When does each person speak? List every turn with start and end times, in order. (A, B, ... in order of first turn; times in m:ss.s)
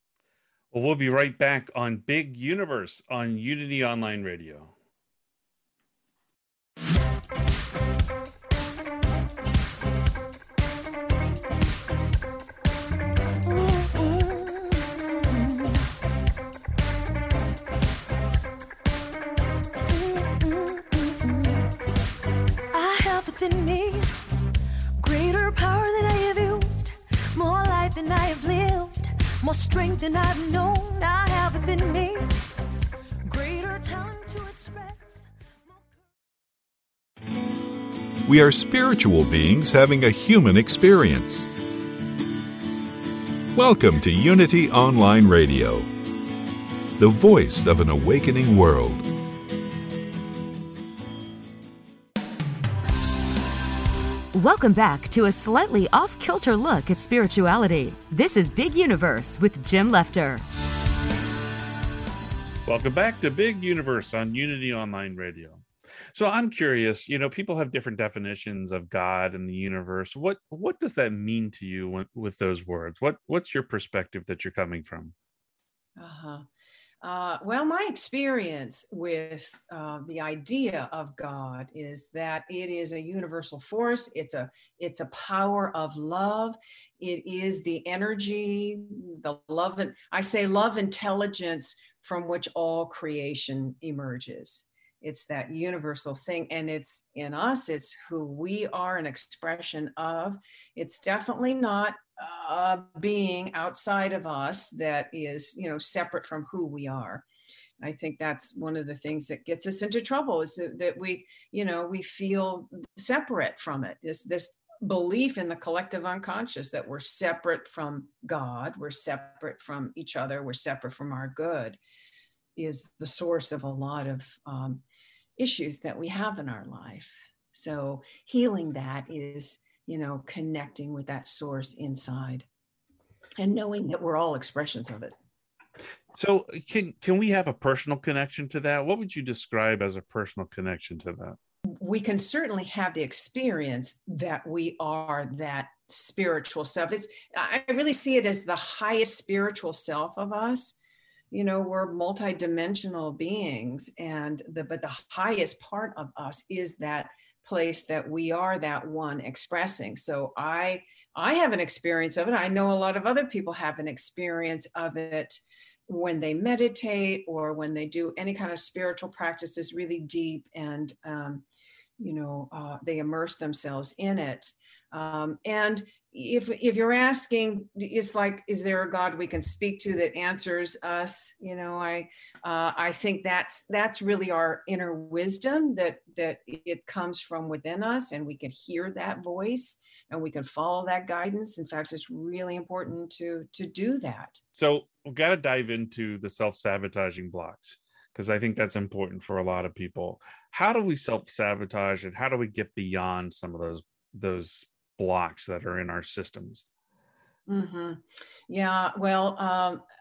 0:00.7-0:04.7 A
0:13.5-0:15.8 B
0:19.9-0:21.6 B
0:22.7-0:24.1 B
0:25.0-0:32.4 B
0:33.3-0:36.0 B
0:38.2-0:41.5 C
0:43.6-0:45.9 C
0:47.0-0:49.1 C
0:54.3-1:00.4 D
1:02.7-1:15.1 A
1:16.0-1:16.5 E
1:17.0-1:47.2 E
1:47.8-2:01.8 E
2:02.6-2:04.8 E
2:05.4-2:12.5 E
2:13.4-2:15.1 E
2:16.2-2:21.4 A
2:21.7-2:30.8 E
2:31.3-2:51.4 E
2:52.0-3:14.4 E
3:14.6-3:26.6 A
3:27.5-3:29.8 E